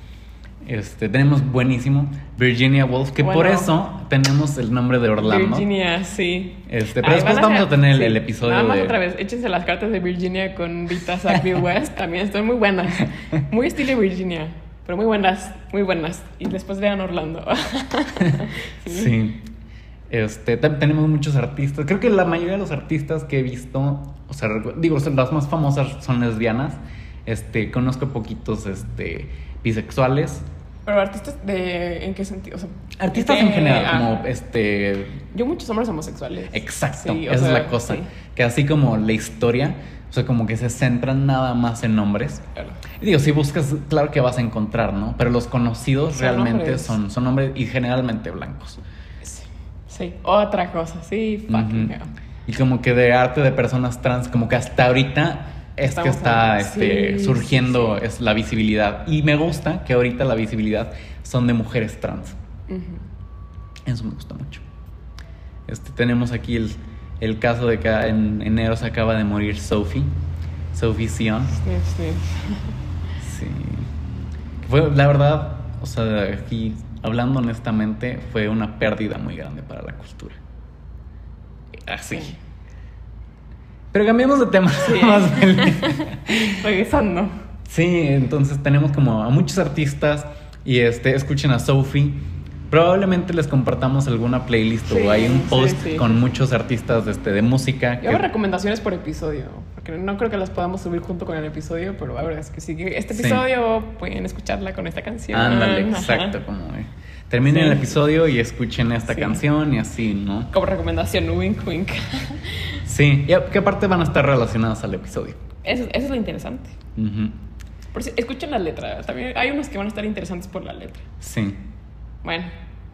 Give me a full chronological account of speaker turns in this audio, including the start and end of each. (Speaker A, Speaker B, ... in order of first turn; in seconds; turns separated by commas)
Speaker A: 0.6-5.7, Speaker B: 3.2-3.7, Speaker B: 5.2-19.1, Speaker A: 6.7-9.0, Speaker A: 18.9-19.4, Speaker A: 20.1-30.5, Speaker B: 30.9-34.2, Speaker A: 33.0-35.2, Speaker B: 35.3-38.1, Speaker A: 36.5-42.4, Speaker A: 43.0-48.8, Speaker B: 46.1-47.0, Speaker B: 49.2-52.1, Speaker A: 51.5-51.9, Speaker A: 52.5-62.4, Speaker B: 55.8-58.0, Speaker B: 62.7-63.0, Speaker A: 63.9-64.6, Speaker A: 65.7-70.1, Speaker A: 70.7-71.6, Speaker B: 71.5-72.7, Speaker A: 73.2-73.9, Speaker A: 74.6-80.4, Speaker A: 81.9-82.3, Speaker A: 83.9-86.6, Speaker B: 84.8-87.3, Speaker A: 87.7-98.2, Speaker B: 94.9-96.2, Speaker B: 98.0-106.4, Speaker A: 103.1-103.4, Speaker A: 105.3-110.5, Speaker B: 107.4-108.0, Speaker B: 109.1-109.4, Speaker B: 110.5-112.8, Speaker A: 112.9-115.4, Speaker B: 115.6-116.8, Speaker A: 117.0-117.3, Speaker B: 117.9-121.0, Speaker A: 121.2-121.6, Speaker B: 122.2-122.5